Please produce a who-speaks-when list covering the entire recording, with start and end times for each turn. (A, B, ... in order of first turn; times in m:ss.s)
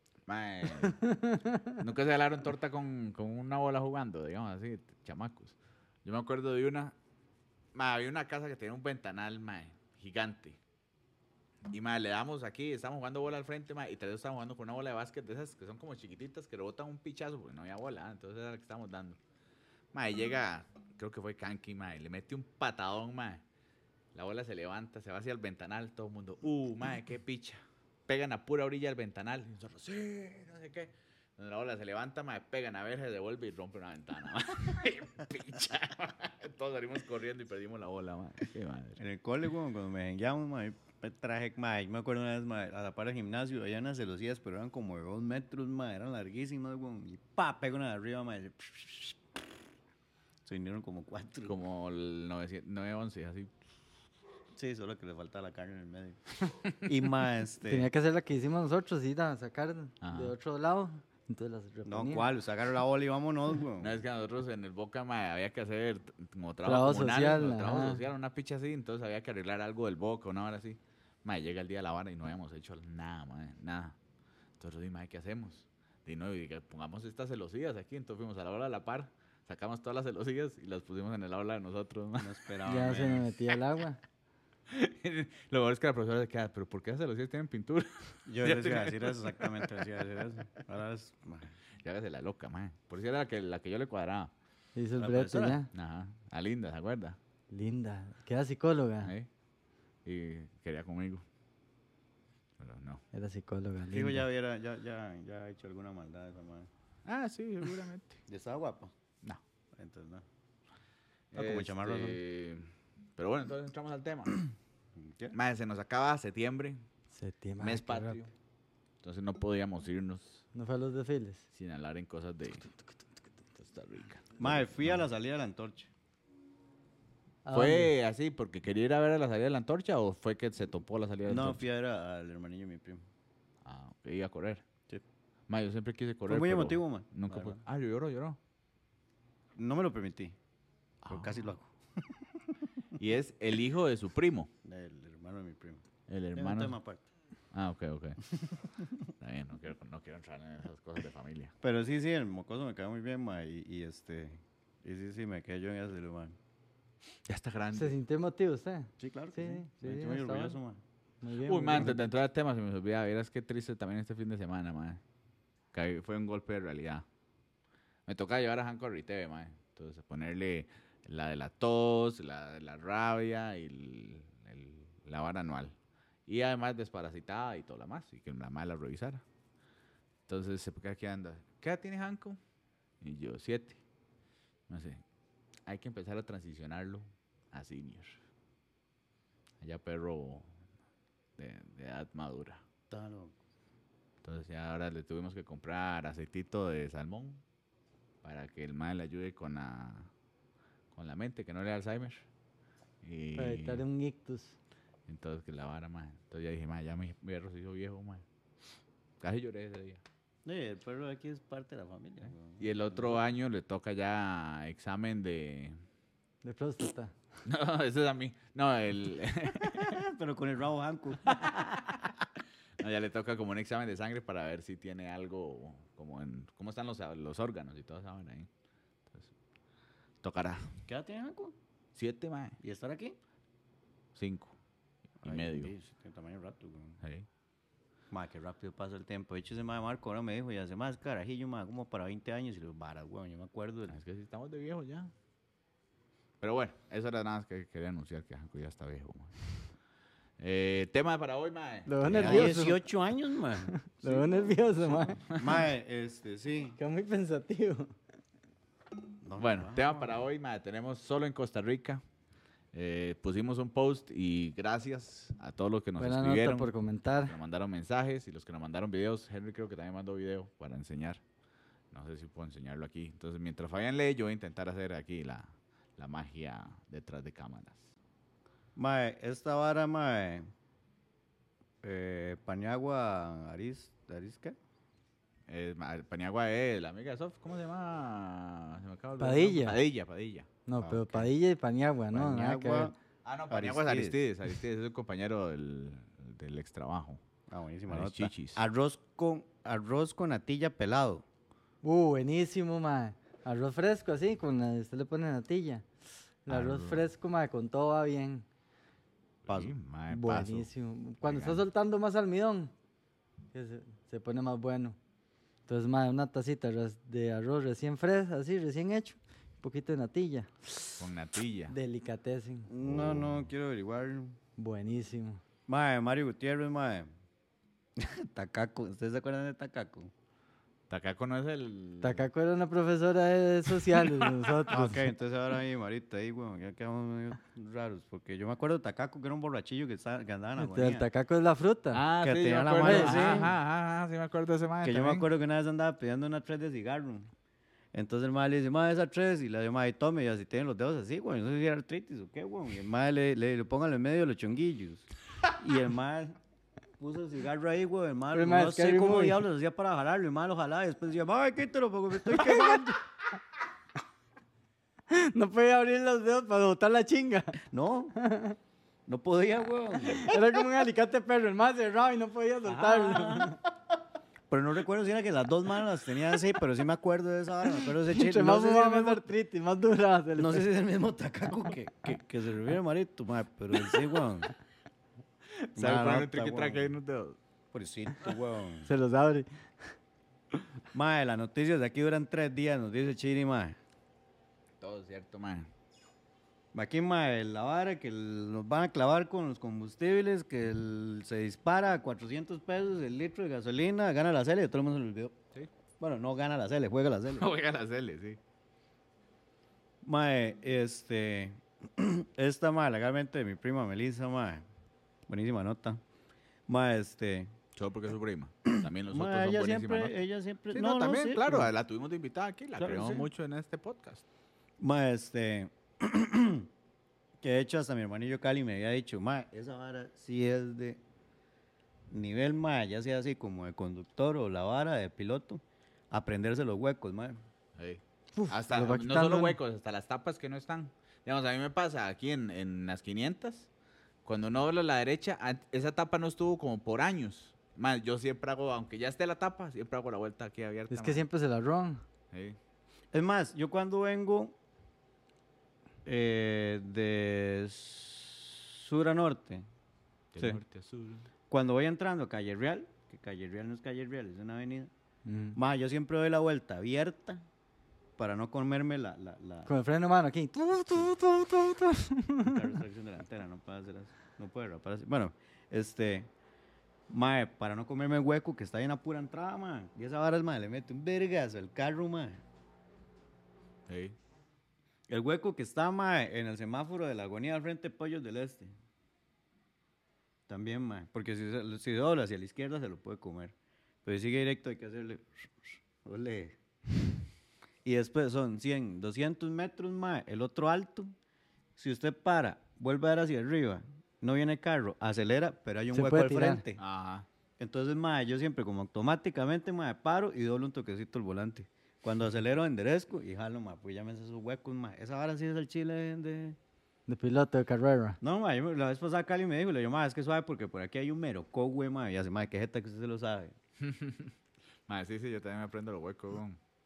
0:00.3-0:01.1 A
0:00.8-0:01.8 B
0:01.7-0:06.9 A
0:07.7-0:10.6 A
0:11.7-0:19.2 A
0:19.9-0:23.4 A
0:24.1-0:39.0 A
0:39.0-0:49.2 C
0:50.4-0:51.6 C
0:51.4-0:53.5 A
0:54.6-0:56.2 C
0:56.8-0:57.9 C
0:57.7-1:02.3 B
1:00.0-1:00.3 A
1:01.8-1:04.0 C
1:03.8-1:14.0 A
1:06.6-1:08.0 B
1:14.6-1:22.4 A
1:22.2-1:23.3 C
1:22.6-1:24.0 B
1:24.7-1:29.9 A
1:28.2-1:31.5 C
1:31.8-1:34.3 A
1:34.8-1:35.7 B
1:35.0-1:35.6 C
1:35.7-1:37.2 A
1:37.5-1:39.1 B
1:40.0-1:41.2 A
1:42.6-1:43.0 A
1:43.1-1:44.2 B
1:43.9-1:46.7 C
1:47.0-1:48.2 A
1:48.3-1:48.9 C
1:49.8-1:50.2 C
1:51.3-1:54.4 A
1:51.3-1:52.2 C
1:55.0-1:55.4 C
1:55.3-1:56.8 A
1:57.1-1:58.2 B
1:57.6-1:58.3 A
1:59.0-2:00.4 A
2:00.5-2:01.4 B
2:01.5-2:02.7 A
2:03.6-2:05.0 A
2:04.4-2:05.9 C
2:07.4-2:07.9 B
2:07.5-2:11.6 A
2:11.2-2:13.0 C
2:13.6-2:14.6 A
2:15.5-2:18.4 A
2:16.3-2:17.6 C
2:19.6-2:20.4 C
2:21.0-2:21.5 A
2:21.1-2:22.7 C
2:23.0-2:24.5 A
2:24.6-2:25.8 C
2:26.1-2:26.8 A
2:26.3-2:27.0 C
2:27.5-2:28.2 A
2:28.3-2:29.0 C
2:29.2-2:31.5 A
2:31.6-2:36.4 C
2:37.2-2:38.0 A
2:37.7-2:40.6 B
2:39.0-2:40.8 C
2:41.2-2:42.0 B
2:41.4-2:45.0 A
2:45.7-2:47.0 A
2:48.1-2:55.8 A
2:56.3-2:59.2 A
3:00.3-3:02.4 A
3:03.0-3:03.8 A
3:04.7-3:05.0 A
3:05.6-3:08.2 A
3:09.6-3:10.5 A
3:11.4-3:12.6 A
3:12.9-3:13.4 C
3:14.2-3:17.4 A
3:18.2-3:20.1 A
3:20.9-3:22.2 A
3:23.0-3:23.8 A
3:23.4-3:24.6 B
3:25.1-3:28.2 A
3:29.2-3:30.0 A
3:30.4-3:33.2 C
3:32.6-3:35.8 A
3:36.4-3:37.1 B
3:37.4-3:40.0 A
3:39.6-3:42.0 C
3:41.2-3:42.2 A
3:42.8-3:48.5 A
3:50.2-3:50.7 A
3:50.9-3:51.5 C
3:51.9-3:52.6 A
3:52.6-3:53.2 C
3:54.1-3:54.6 A
3:55.2-3:55.7 A
3:55.2-3:57.0 C
3:57.0-3:57.3 A
3:58.1-4:04.0 C
4:03.9-4:05.1 A
4:06.4-4:09.5 A
4:10.4-4:12.6 A
4:11.9-4:12.8 B
4:12.1-4:16.8 C
4:13.6-4:15.2 B
4:15.3-4:15.6 A
4:16.8-4:17.9 B
4:19.2-4:20.1 C
4:19.4-4:22.0 A
4:22.7-4:26.7 A
4:26.0-4:27.3 B
4:27.2-4:31.2 A
4:31.9-4:37.9 A
4:38.8-4:40.5 C
4:41.8-4:44.6 C
4:45.5-4:50.5 A
4:49.2-4:49.8 B
4:50.6-4:52.9 B
4:50.8-4:51.3 C
4:52.1-4:52.9 C
4:53.2-4:57.2 A
4:53.5-4:54.2 C
4:57.5-5:01.2 C
4:57.9-4:58.6 A
5:01.8-5:05.8 B
5:06.4-5:08.4 B
5:06.5-5:07.0 A
5:09.4-5:10.7 A
5:09.5-5:09.7 C
5:10.1-5:12.7 B
5:11.2-5:11.6 A
5:13.5-5:15.0 B
5:15.7-5:20.7 B
5:21.0-5:21.7 A
5:21.7-5:22.7 B
5:22.7-5:24.4 C
5:22.8-5:23.4 A
5:24.6-5:25.4 B
5:25.7-5:27.1 C
5:28.0-5:30.1 C
5:30.9-5:32.2 A
5:32.0-5:35.1 B
5:33.7-5:34.6 A
5:34.7-5:41.1 C
5:40.6-5:42.0 B
5:41.9-5:45.2 A
5:42.2-5:43.6 C
5:42.8-5:43.5 B
5:44.8-5:47.3 C
5:47.9-5:56.4 C
5:57.0-6:03.0 C
5:58.3-5:59.4 B
6:02.4-6:03.0 B
6:05.1-6:07.6 B
6:07.7-6:08.2 C
6:08.1-6:08.6 B
6:09.1-6:10.3 C
6:10.1-6:13.6 B
6:12.6-6:13.6 C
6:14.5-6:19.2 C
6:18.0-6:20.7 B
6:20.4-6:24.5 C
6:25.6-6:27.4 A
6:25.8-6:26.9 C
6:27.7-6:28.9 C
6:28.8-6:29.5 B
6:30.9-6:33.8 C
6:34.8-6:35.7 A
6:36.7-6:45.4 C
6:46.0-6:47.5 C
6:47.4-6:48.4 A
6:50.0-6:54.6 C
6:55.3-6:56.0 C
6:56.7-6:57.5 C
6:57.8-7:00.2 A
6:58.6-7:01.7 C
7:00.7-7:04.2 A
7:02.8-7:03.3 C
7:04.8-7:06.7 C
7:07.4-7:11.0 C
7:12.1-7:17.4 C
7:17.8-7:23.7 A
7:18.4-7:19.6 B
7:24.2-7:31.2 A
7:30.9-7:32.0 B
7:32.3-7:32.6 A
7:33.1-7:34.6 C
7:36.0-7:39.6 C
7:40.3-7:41.3 A
7:41.5-7:44.9 C
7:45.2-7:45.6 B
7:45.5-7:47.4 C
7:48.2-7:49.7 C
7:49.6-7:52.7 B
7:52.4-7:56.3 C
7:57.1-8:02.4 C
8:03.9-8:04.2 A
8:05.1-8:08.7 C
8:10.5-8:13.5 C
8:14.0-8:16.6 C
8:17.8-8:21.1 C
8:21.8-8:26.8 C
8:25.9-8:26.6 B
8:26.8-8:27.2 A
8:27.6-8:36.6 C
8:37.1-8:38.2 B
8:38.2-8:43.5 C
8:43.8-8:44.4 A
8:44.9-8:46.6 A